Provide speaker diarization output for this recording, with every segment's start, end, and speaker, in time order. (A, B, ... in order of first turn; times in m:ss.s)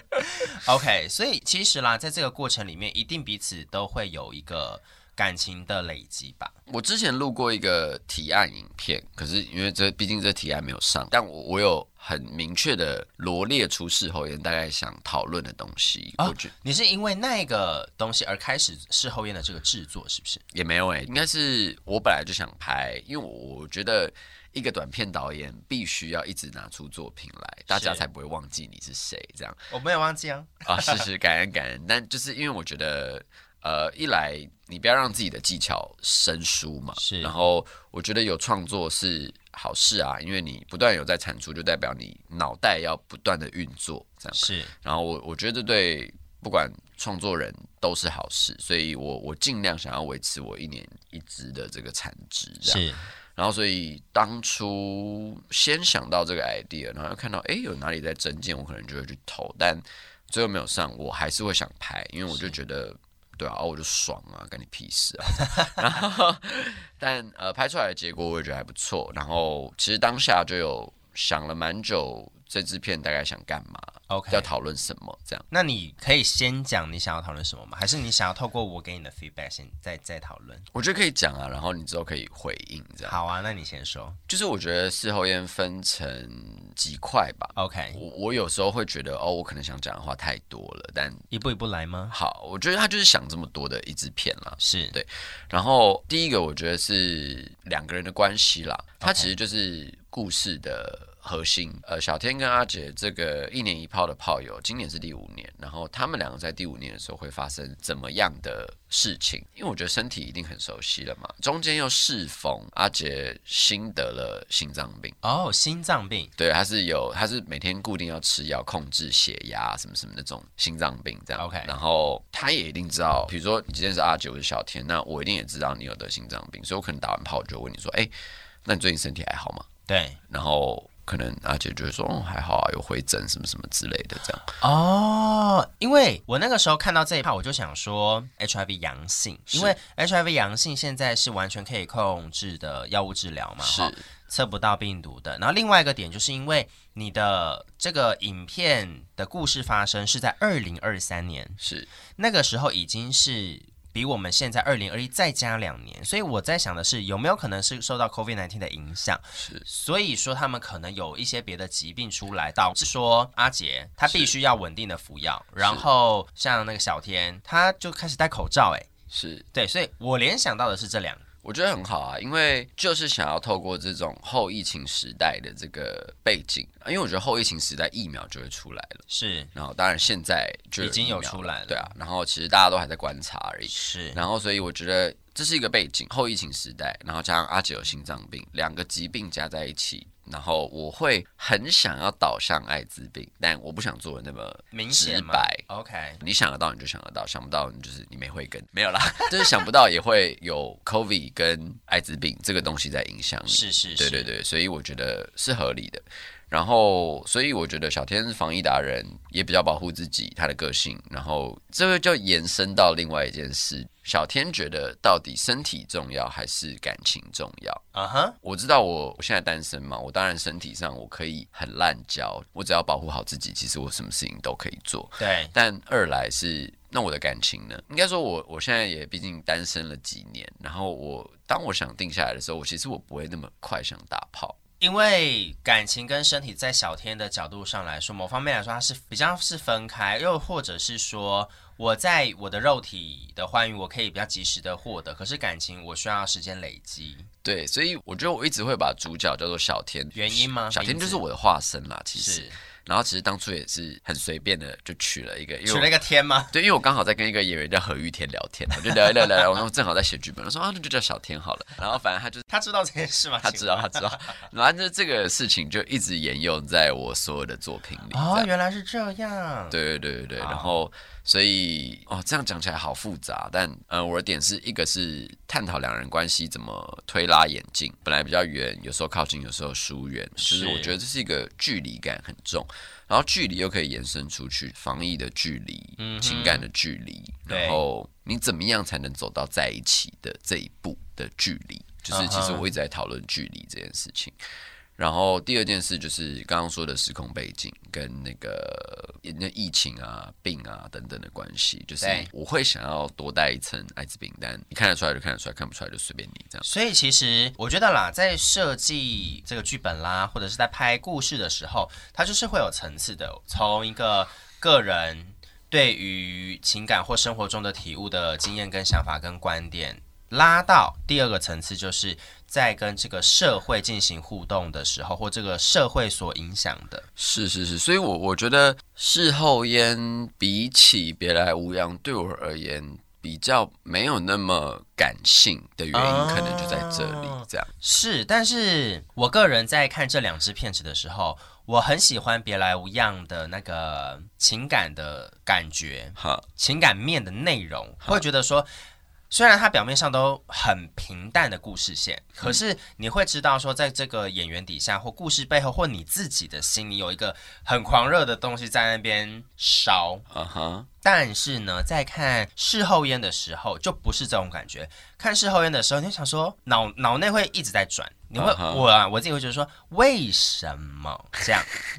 0:00.2-0:06.5 A
0:06.7-0:16.5 B
0:16.2-0:20.4 A
0:20.5-0:29.6 B
0:27.7-0:28.0 A
0:29.7-0:31.0 A
0:30.6-1:15.4 B
0:37.0-0:37.3 A
0:44.4-0:44.7 A
0:52.6-0:53.0 A
1:05.5-1:05.8 A
1:14.1-1:14.5 A
1:15.5-1:20.7 A
1:20.7-1:23.2 B
1:23.1-1:24.2 A
1:24.3-1:31.2 B
1:27.6-1:28.0 A
1:31.3-1:32.1 A
1:32.1-1:55.2 B
1:34.6-1:35.0 A
1:39.0-1:39.3 A
1:55.2-1:56.3 A
1:56.4-2:08.1 B
2:01.4-2:01.7 A
2:08.6-2:09.7 B
2:09.9-2:10.2 A
2:10.3-2:14.5 B
2:14.6-2:31.6 A
2:19.5-2:19.8 B
2:23.6-2:24.0 B
2:31.6-2:31.9 B
2:32.2-2:48.9 A
2:39.4-2:39.6 B
2:44.1-2:44.3 B
2:45.6-2:45.9 B
2:49.1-2:49.4 B
2:49.5-2:51.2 A
2:51.4-2:59.0 B
2:59.1-2:59.5 A
2:59.5-3:15.6 B
3:00.8-3:01.9 A
3:03.7-3:04.2 A
3:14.7-3:16.2 A
3:16.2-3:37.8 B
3:23.5-3:24.3 A
3:37.9-3:38.4 A
3:38.4-3:54.6 B
3:45.2-3:45.5 A
3:54.8-4:07.3 A
4:07.4-4:15.9 B
4:10.1-4:11.2 A
4:12.2-4:12.6 A
4:15.7-4:16.5 A
4:16.5-4:22.5 B
4:22.5-4:24.4 A
4:23.4-4:28.5 B
4:28.1-4:29.8 A
4:29.7-4:54.4 B
4:30.4-4:30.7 A
4:40.4-4:41.0 A
4:46.0-4:46.7 A
4:47.5-4:47.8 A
4:52.1-4:52.7 A
4:55.0-5:06.7 B
5:02.0-5:02.3 A
5:06.6-5:27.1 A
5:27.2-5:37.7 B
5:35.9-5:48.7 A
5:46.2-5:46.4 B
5:49.3-6:00.2 A
6:00.3-6:00.9 B
6:01.0-6:11.7 A
6:08.4-6:08.9 B